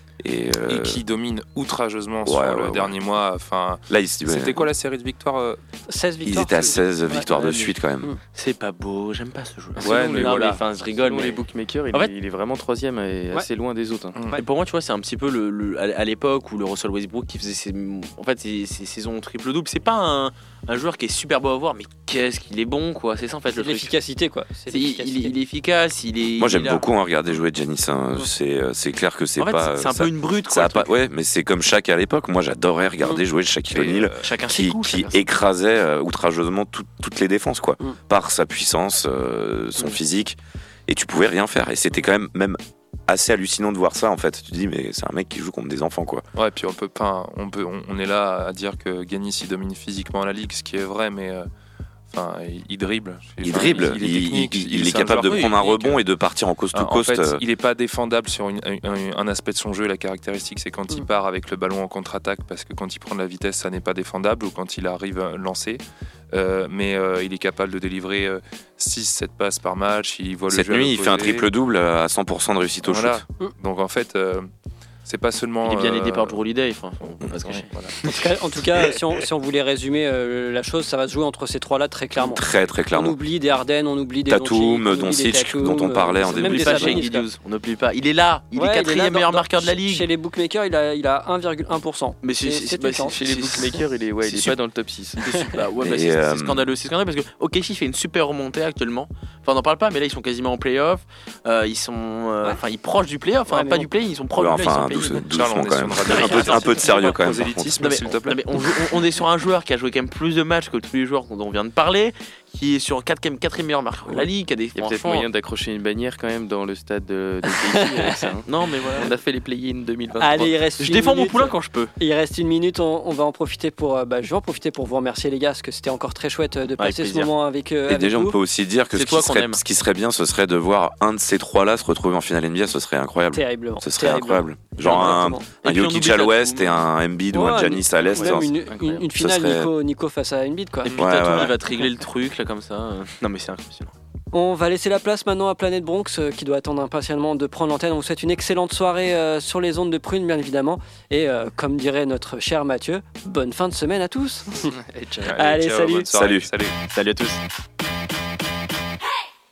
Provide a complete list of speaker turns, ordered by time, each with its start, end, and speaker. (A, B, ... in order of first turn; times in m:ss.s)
0:00.2-0:01.0 A
0:00.6-0:05.6 B
0:02.2-0:03.0 A
0:03.9-0:04.7 A
0:05.9-0:07.3 C
0:06.3-0:08.1 A
0:07.3-0:07.7 D
0:08.3-0:12.1 D
0:09.8-0:10.6 B
0:09.8-0:14.2 E
0:14.3-0:23.9 D
0:23.6-0:25.3 C
0:24.7-0:26.8 D
0:26.4-0:46.2 A
0:29.4-0:30.9 D
0:33.7-0:34.2 B
0:34.2-0:35.2 D
0:46.4-0:51.5 B
0:52.1-0:55.6 B
0:53.4-0:57.4 A
0:53.5-0:54.0 D
0:54.7-0:56.0 D
0:56.7-1:05.8 B
1:06.3-1:11.5 B
1:10.5-1:13.2 A
1:12.8-1:14.5 B
1:15.0-1:16.4 B
1:15.6-1:18.9 D
1:17.4-1:17.8 B
1:18.1-1:27.3 C
1:22.2-1:23.2 A
1:24.3-1:27.0 A
1:26.3-1:30.0 D
1:28.5-1:33.1 C
1:32.2-1:33.8 D
1:33.1-1:35.5 E
1:35.3-1:45.2 D
1:35.8-1:36.7 A
1:43.5-1:43.9 C
1:44.3-1:47.9 A
1:44.6-1:45.0 C
1:45.2-1:48.9 B
1:46.1-1:47.1 D
1:47.8-1:55.3 D
1:54.8-2:00.6 E
1:58.4-1:59.1 D
2:00.2-2:08.4 C
2:00.8-2:01.9 D
2:06.8-2:07.3 D
2:07.9-2:18.5 A
2:08.9-2:09.6 D
2:13.3-2:15.4 C
2:14.8-2:16.8 D
2:17.3-2:21.0 C
2:18.0-2:19.1 E
2:19.2-2:19.7 A
2:20.8-2:23.9 D
2:21.0-2:21.6 A
2:24.3-2:34.7 C
2:34.7-2:35.4 E
2:35.2-2:36.8 B
2:35.4-2:36.0 C
2:36.1-2:36.5 A
2:36.9-2:37.4 D